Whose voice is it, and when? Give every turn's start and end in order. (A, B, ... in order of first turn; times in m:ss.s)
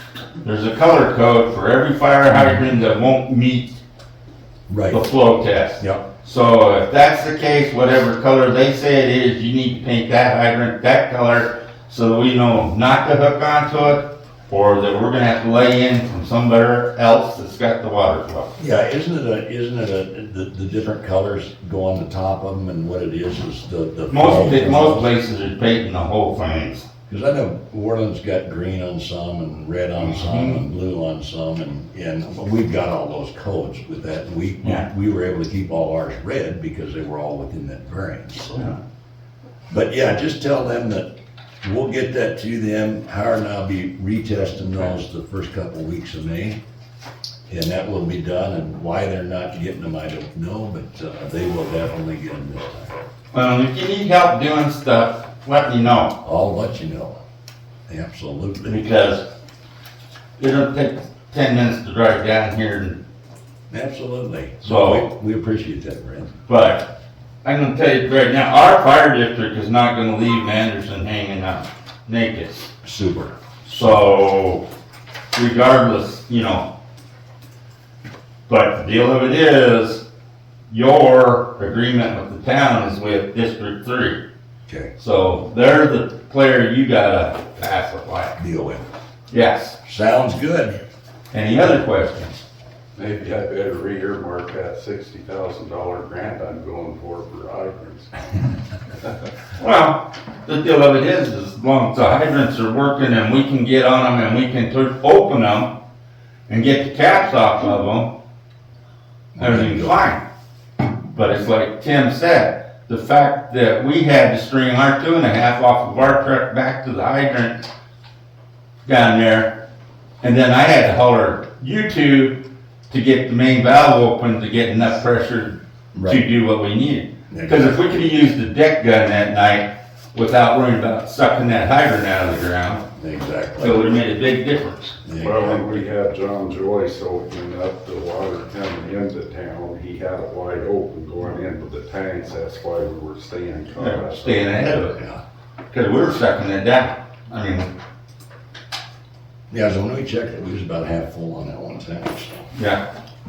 0:00.4-0:03.7 A
0:04.7-0:05.0 B
0:04.9-0:18.5 A
0:18.6-0:25.1 B
0:24.1-0:26.8 A
0:27.1-0:38.8 B
0:30.0-0:30.6 A
0:39.7-0:41.1 B
0:41.6-0:46.6 B
0:47.5-0:53.0 B
0:53.3-0:56.1 A
0:56.2-0:57.2 B
0:57.9-0:58.8 B
0:58.6-0:59.2 A
1:00.4-1:03.0 A
1:03.7-1:06.4 B
1:04.6-1:05.0 A
1:06.5-1:06.9 A
1:07.4-1:12.7 A
1:12.8-1:13.3 B
1:13.6-1:14.6 A
1:15.3-1:16.6 A
1:18.5-1:20.0 A
1:20.7-1:24.2 A
1:25.0-1:28.3 A
1:28.4-1:28.9 B
1:29.3-1:29.8 A
1:29.8-1:30.8 B
1:31.3-1:32.3 A
1:33.0-1:38.1 C
1:39.6-1:45.7 A
1:46.5-1:48.1 A
1:49.3-1:50.0 B
1:49.4-1:50.2 A
1:51.1-1:57.6 A
1:58.8-1:59.6 A
2:00.2-2:02.4 A
2:02.9-2:12.8 A
2:05.9-2:06.2 B
2:07.3-2:07.7 B
2:12.9-2:13.8 B
2:13.6-2:15.0 A
2:15.0-2:15.8 B
2:15.2-2:24.6 C
2:23.8-2:25.0 A
2:24.9-2:25.2 B
2:25.7-2:27.7 A
2:29.5-2:32.5 B
2:32.5-2:32.8 A